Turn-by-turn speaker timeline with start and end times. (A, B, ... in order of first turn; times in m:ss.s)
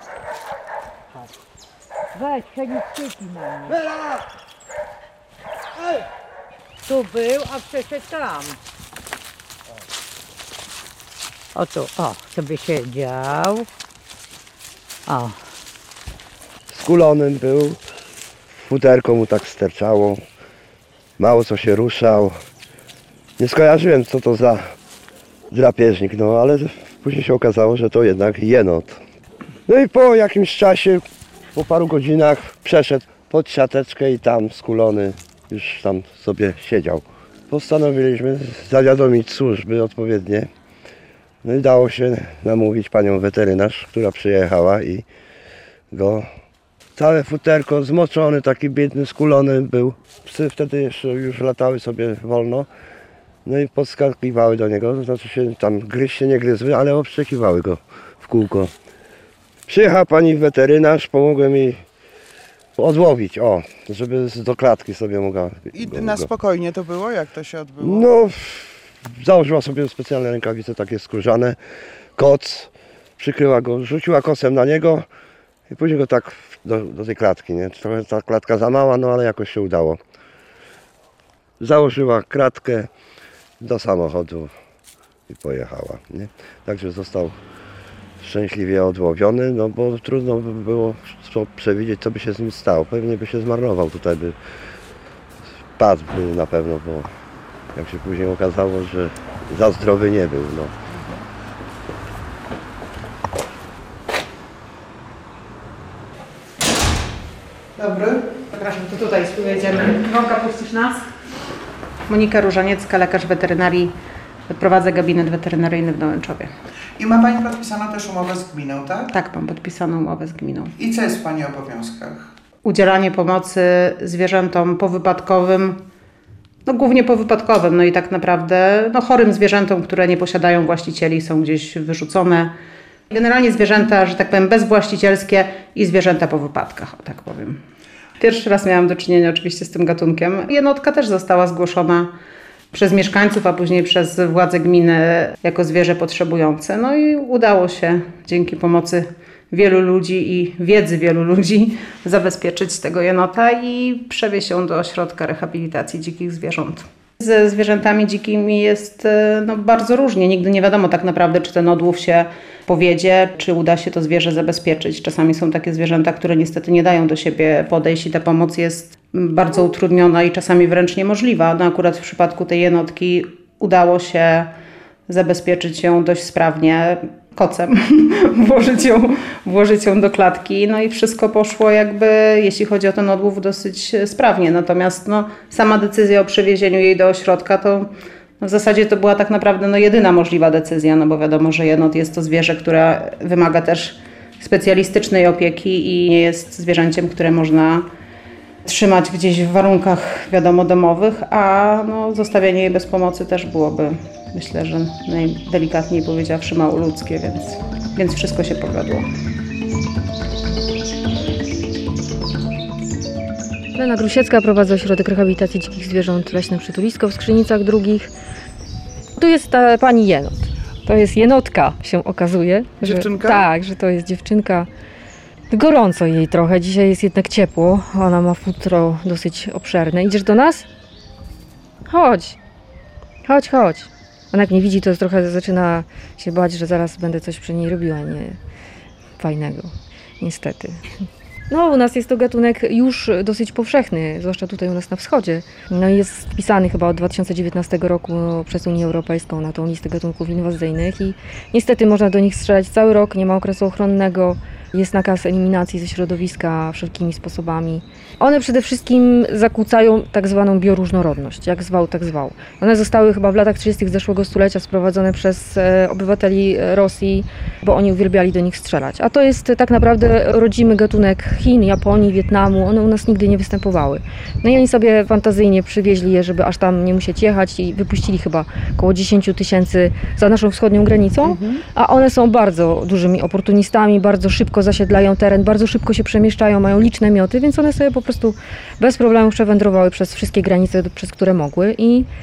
0:02.1-0:04.2 A
0:05.8-0:06.0 A
0:06.8-0:08.6 A
0:11.5-0:13.7 A
0:15.1-0:15.4 A
0:16.7-0:17.8 B
0:18.5-0:20.2 B
0:21.2-0:22.4 B
0:23.4-0:24.7 B
0:25.5-0:29.0 B
0:29.7-0:31.0 B
0:31.6-0:40.5 B
0:41.4-0:45.0 B
0:45.9-0:46.3 B
0:47.0-0:52.7 B
0:53.4-0:58.7 B
0:59.7-1:01.8 B
1:02.8-1:06.3 B
1:05.7-1:08.1 C
1:07.8-1:11.6 B
1:12.2-1:15.0 B
1:15.7-1:20.0 B
1:21.6-1:22.9 B
1:23.6-1:24.5 B
1:25.3-1:27.4 B
1:28.2-1:34.4 B
1:35.8-1:37.1 B
1:37.7-1:40.7 B
1:47.8-1:48.4 C
1:48.5-1:51.1 D
1:52.1-1:53.9 D
1:54.5-1:56.5 D
1:57.0-1:59.1 C
1:59.1-2:00.7 D
2:00.8-2:02.3 C
2:02.6-2:05.8 D
2:06.6-2:12.5 D
2:13.1-2:17.6 D
2:18.2-2:22.1 D
2:22.7-2:54.5 D
2:55.1-3:17.9 D
3:18.6-3:29.1 D
3:33.7-3:38.1 E
3:39.2-3:44.7 E
3:42.8-3:43.4 C
3:45.5-3:50.6 E
3:51.9-3:52.4 E
3:53.2-3:58.4 E
3:59.2-4:00.8 E
4:01.5-4:52.1 E
4:41.3-4:41.6 C